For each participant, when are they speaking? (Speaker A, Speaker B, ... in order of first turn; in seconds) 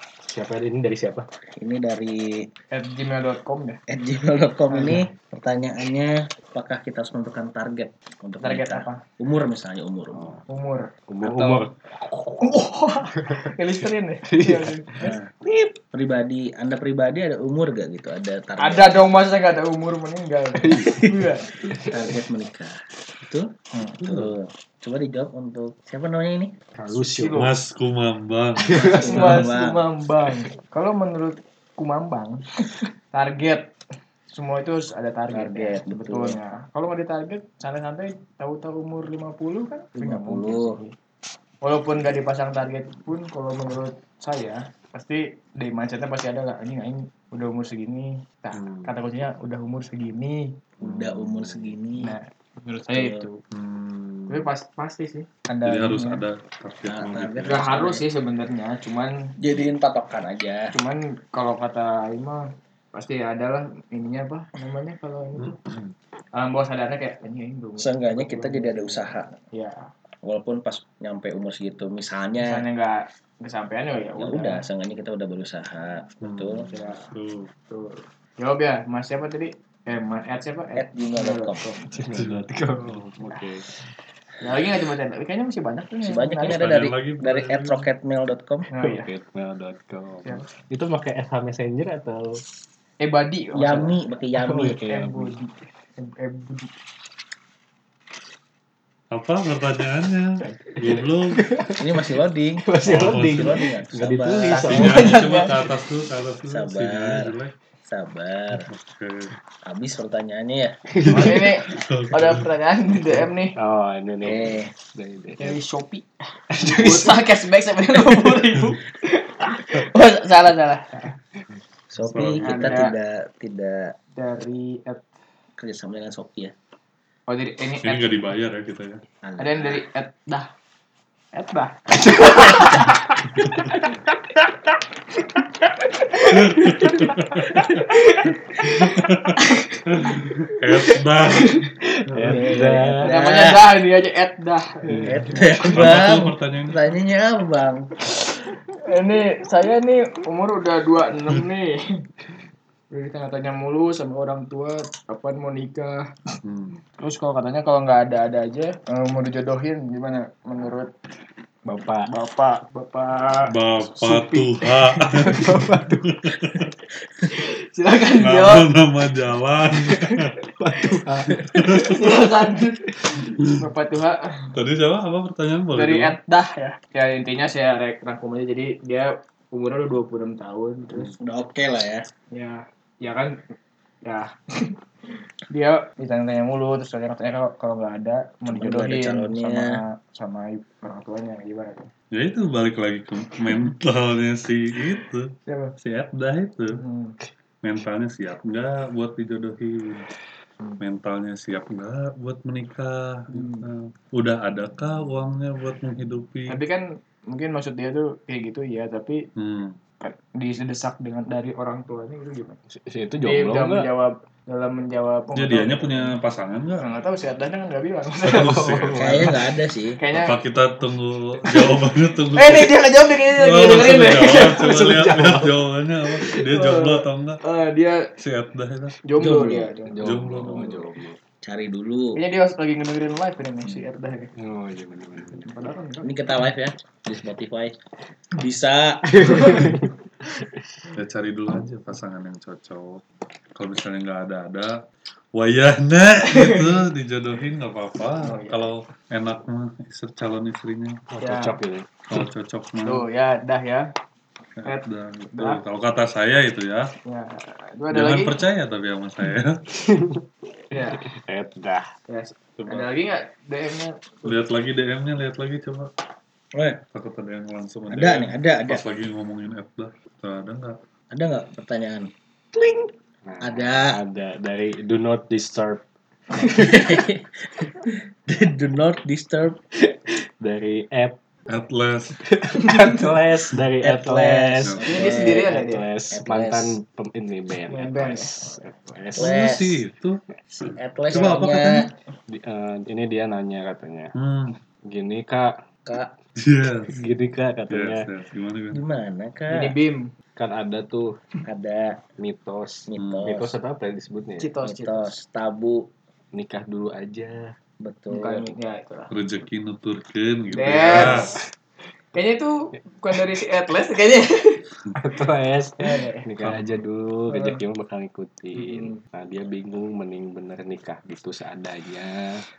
Speaker A: 0.3-1.3, 10.1-10.4, 11.1-13.6, 14.3-15.7, 20.6-22.0, 26.8-27.5, 28.7-29.4, 81.9-83.7, 88.8-92.4, 94.4-95.4, 100.4-105.4, 110.9-111.5, 113.6-115.6, 116.5-117.3, 118.0-118.4, 132.3-132.7, 142.1-143.1, 144.9-145.3, 161.7-162.1, 165.3-166.1, 170.6-171.9, 212.7-213.9, 218.3-219.4, 224.3-225.7, 229.9-231.2, 234.4-235.5, 239.1-240.4, 251.1-251.9, 259.8-261.9, 272.6-275.8, 276.4-277.0, 279.8-281.2, 282.2-289.4, 292.3-294.1, 294.9-295.5, 296.9-298.1, 300.4-301.2, 302.2-304.5, 306.3-307.5, 310.9-311.4, 314.9-322.4
Speaker B: 1.6-2.5, 3.9-10.3, 11.2-11.7, 15.0-15.3, 15.9-19.0, 21.9-23.5, 24.0-26.5, 28.9-29.8, 35.3-36.4, 40.0-40.8, 50.8-52.1, 52.9-53.3, 56.9-58.0, 59.4-60.7, 67.8-69.4, 70.2-72.7, 74.2-76.7, 80.8-81.7, 86.0-88.7, 93.5-94.8, 101.8-104.9, 106.5-107.3, 107.9-108.7, 109.7-110.8, 114.2-114.7, 121.9-124.0, 125.6-126.5, 129.2-129.8, 142.3-143.7, 145.0-147.9, 181.1-182.1, 188.5-189.8, 219.0-220.0, 229.2-229.7, 231.4-232.2, 236.0-237.8, 238.3-239.5, 266.5-266.8, 267.9-268.8, 271.1-272.1, 273.4-274.0, 276.4-279.6, 283.8-285.5, 286.1-286.8, 289.1-289.9, 290.5-291.9, 295.9-296.1, 298.7-299.7, 301.4-302.0, 302.9-303.5, 304.6-305.9, 307.8-308.5
Speaker C: 2.7-3.8, 4.7-5.0, 8.4-9.0, 10.5-10.9, 12.4-15.1, 18.6-21.5, 23.7-24.0, 27.1-27.5, 28.8-33.7, 34.3-41.0, 41.6-50.6, 52.0-53.4, 54.3-56.2, 57.5-59.2, 60.7-65.6, 66.3-69.9, 72.4-74.7, 76.7-77.1, 77.7-83.5, 84.4-86.6, 88.7-89.1, 93.0-94.0, 94.9-96.7, 104.5-105.6, 111.1-113.6, 115.4-121.2, 122.4-122.9, 124.2-125.0, 127.3-128.1, 129.4-130.5, 131.3-134.0, 135.2-141.7, 142.3-145.7, 148.2-151.8, 152.9-156.0, 157.0-160.9, 162.1-165.8, 167.2-168.7, 170.8-174.5, 175.7-181.2, 182.3-183.3, 184.0-184.8, 185.5-191.9, 195.5-195.8, 196.7-197.2, 203.3-203.7, 206.5-209.2, 210.0-212.6, 213.2-216.1, 216.8-218.7, 220.0-220.4, 222.3-224.9, 226.3-228.1, 229.1-230.1, 232.2-234.3, 235.4-236.2, 239.2-239.7, 246.3-246.7, 248.2-248.7, 251.2-251.6, 252.8-253.9, 254.7-255.6, 257.1-258.4, 260.7-261.1, 262.1-264.4, 282.7-283.0, 284.8-285.9, 287.7-288.5, 299.5-300.1, 304.4-305.1, 308.1-309.1, 310.5-311.4, 312.1-314.6, 315.8-316.3, 317.3-317.6
Speaker D: 24.0-24.3, 27.4-29.0, 48.5-48.9, 50.8-51.7, 53.5-54.5, 55.6-57.7, 65.4-65.9, 76.2-77.5, 82.2-83.1, 86.5-87.8, 99.1-101.4, 102.8-103.6, 104.7-107.5, 108.5-109.3, 111.0-112.5, 122.1-122.7, 127.8-129.0, 136.2-137.9, 138.6-141.6, 142.2-142.5, 145.7-146.8, 156.4-156.8, 163.5-166.7, 168.2-170.3, 171.4-172.1, 173.2-173.7, 174.5-176.2, 192.1-196.8, 197.6-200.1, 200.8-206.6, 209.4-209.8, 215.3-216.9, 218.2-219.4, 220.1-227.4, 228.2-229.0, 230.0-230.8, 241.0-243.0, 243.6-244.8, 245.3-251.0, 252.1-253.1, 254.6-256.9, 257.9-259.6, 262.6-262.9, 264.2-265.9, 266.9-270.8, 281.5-282.2, 289.2-290.2, 291.1-291.9, 294.1-294.6, 296.4-297.0, 297.7-298.8, 303.0-303.3, 309.1-311.4, 316.4-316.8